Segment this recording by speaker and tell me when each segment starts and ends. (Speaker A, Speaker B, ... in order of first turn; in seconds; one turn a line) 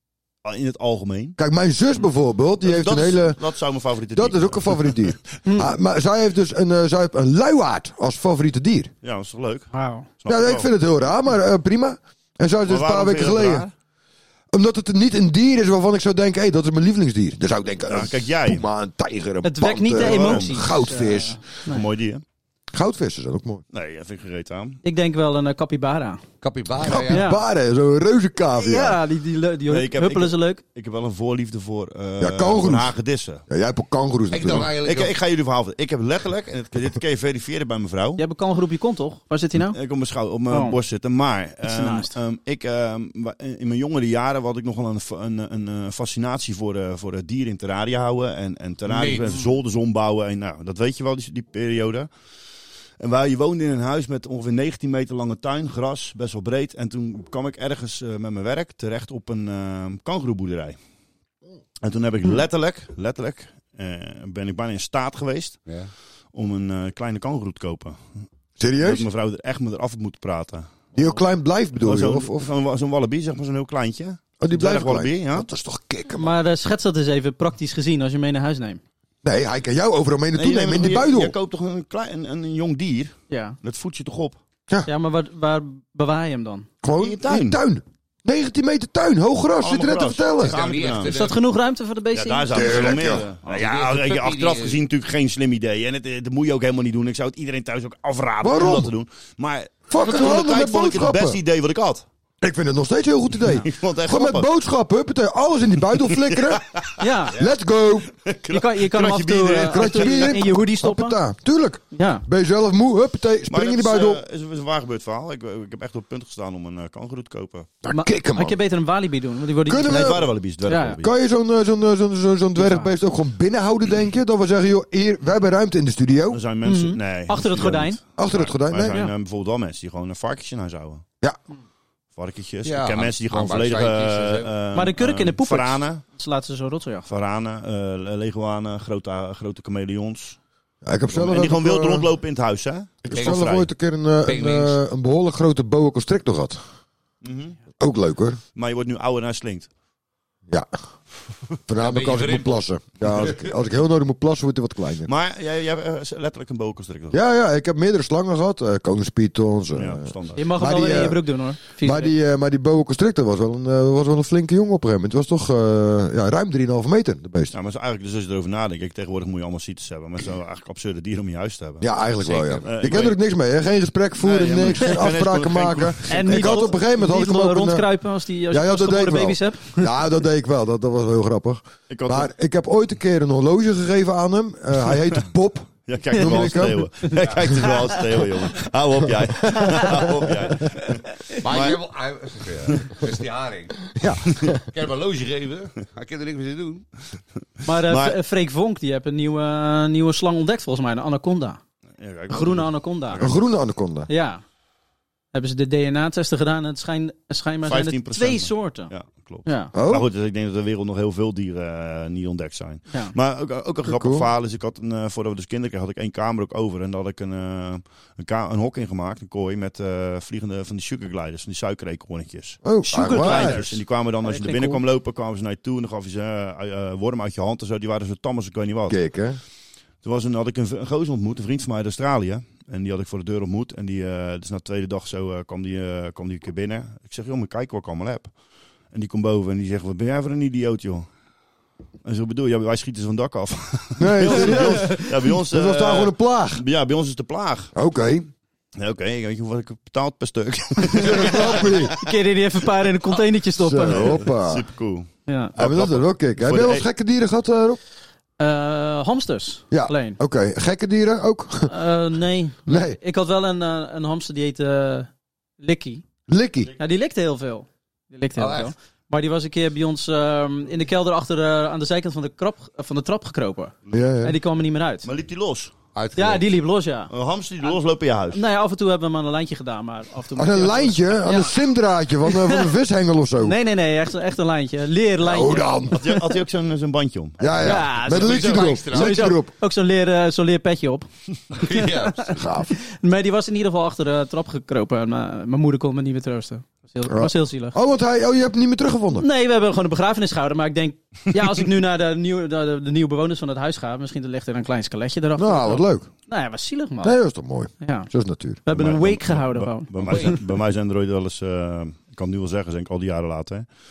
Speaker A: 0.4-1.4
Speaker B: 1.4-3.4
Speaker A: 2.6-5.2
Speaker B: 4.1-8.9
Speaker A: 9.0-10.7
Speaker C: 9.7-10.1
Speaker B: 10.3-13.7
Speaker A: 12.6-13.7
Speaker B: 14.5-21.4
Speaker A: 17.9-18.7
Speaker C: 19.4-21.9
Speaker A: 19.9-20.7
Speaker A: 21.7-22.2
Speaker B: 22.7-23.6
Speaker A: 23.7-24.8
Speaker C: 24.8-26.2
Speaker D: 26.4-27.2
Speaker B: 26.8-29.0
Speaker C: 27.1-27.4
Speaker C: 28.6-30.6
Speaker A: 29.7-33.4
Speaker B: 32.2-32.9
Speaker B: 33.5-34.7
Speaker D: 34.3-35.1
Speaker A: 34.6-38.2
Speaker C: 38.2-39.8
Speaker A: 39.6-52.1
Speaker C: 40.5-40.8
Speaker C: 41.6-42.2
Speaker D: 48.9-49.4
Speaker A: 53.0-60.8
Speaker A: 61.8-65.6
Speaker D: 65.7-65.9
Speaker A: 66.3-68.0
Speaker B: 68.6-69.0
Speaker A: 68.8-70.7
Speaker B: 71.0-72.5
Speaker A: 71.8-75.5
Speaker B: 74.4-76.3
Speaker C: 76.2-78.8
Speaker B: 79.2-81.3
Speaker A: 80.3-84.4
Speaker C: 83.3-83.6
Speaker C: 84.9-86.7
Speaker B: 86.8-90.6
Speaker A: 87.0-87.6
Speaker A: 89.6-91.2
Speaker D: 90.4-91.4
Speaker C: 91.1-92.9
Speaker A: 92.1-102.0
Speaker B: 92.5-93.3
Speaker D: 93.5-94.8
Speaker B: 98.4-98.9
Speaker B: 99.9-101.4
Speaker B: 102.4-106.7
Speaker A: 103.5-104.5
Speaker A: 105.9-107.0
Speaker C: 107.0-107.4
Speaker B: 107.4-108.1
Speaker A: 108.2-110.4
Speaker C: 108.5-111.2
Speaker B: 109.7-114.2
Speaker C: 111.9-112.2
Speaker A: 113.5-117.8
Speaker B: 117.8-118.6
Speaker C: 117.9-121.0
Speaker B: 119.7-120.3
Speaker A: 119.8-121.1
Speaker B: 121.0-126.4
Speaker C: 122.6-122.9
Speaker A: 126.3-131.0
Speaker C: 126.6-128.0
Speaker B: 128.2-129.0
Speaker A: 132.2-136.0
Speaker D: 132.7-134.5
Speaker C: 134.7-137.1
Speaker A: 137.1-140.4
Speaker B: 140.8-142.1
Speaker A: 141.1-143.7
Speaker B: 143.0-146.6
Speaker D: 143.1-143.5
Speaker D: 144.2-144.8
Speaker A: 147.2-147.6
Speaker B: 147.8-148.4
Speaker A: 148.6-149.7
Speaker B: 151.7-155.1
Speaker D: 151.8-153.5
Speaker A: 155.1-157.2
Speaker B: 157.1-167.5
Speaker A: 159.7-160.5
Speaker C: 160.4-162.1
Speaker A: 167.5-173.2
Speaker B: 171.8-177.9
Speaker A: 174.2-176.8
Speaker C: 176.1-179.9
Speaker B: 178.5-186.9
Speaker A: 181.9-182.3
Speaker A: 185.9-191.8
Speaker C: 186.2-186.4
Speaker C: 187.0-187.9
Speaker D: 191.4-193.9
Speaker B: 194.0-194.6
Speaker D: 194.7-196.9
Speaker C: 197.7-201.6
Speaker A: 197.7-198.2
Speaker A: 202.0-203.4
Speaker C: 202.3-203.3
Speaker B: 203.2-204.1
Speaker C: 204.1-204.4
Speaker C: 205.3-208.9
Speaker A: 207.7-229.0
Speaker C: 209.4-209.7
Speaker B: 209.7-210.1
Speaker B: 213.9-214.3
Speaker B: 222.6-223.6
Speaker C: 222.8-224.8
Speaker B: 228.9-229.4
Speaker A: 230.0-238.3
Speaker A: 238.9-241.1
Speaker A: 242.0-247.7
Speaker B: 244.0-246.6
Speaker C: 244.3-245.1
Speaker B: 247.8-248.3
Speaker A: 248.8-251.9
Speaker B: 250.9-251.9
Speaker C: 251.9-254.2
Speaker B: 253.6-254.6
Speaker A: 253.8-256.9
Speaker C: 255.3-255.5
Speaker B: 255.6-257.8
Speaker C: 258.4-260.2
Speaker B: 259.7-261.7
Speaker C: 261.7-265.1
Speaker B: 262.7-263.0
Speaker C: 265.6-266.0
Speaker B: 266.3-266.7
Speaker C: 266.8-275.1
Speaker D: 268.4-268.7
Speaker B: 273.9-274.4
Speaker A: 275.0-275.7
Speaker D: 275.9-276.4
Speaker C: 276.2-277.1
Speaker A: 277.1-278.4
Speaker C: 278.3-281.6
Speaker B: 280.4-283.6
Speaker C: 282.3-282.7
Speaker C: 283.4-286.1
Speaker B: 285.2-286.1
Speaker A: 286.0-287.8
Speaker B: 287.4-289.5
Speaker C: 287.6-291.1
Speaker D: 288.1-289.3
Speaker D: 291.5-292.4
Speaker C: 291.6-297.8
Speaker B: 292.4-292.7
Speaker B: 297.1-299.3
Speaker C: 299.2-307.2
Speaker B: 305.4-306.1
Speaker B: 307.0-308.6
Speaker C: 307.8-308.1
Speaker C: 308.6-310.4
Speaker A: 308.7-313.7
Speaker D: 310.0-310.4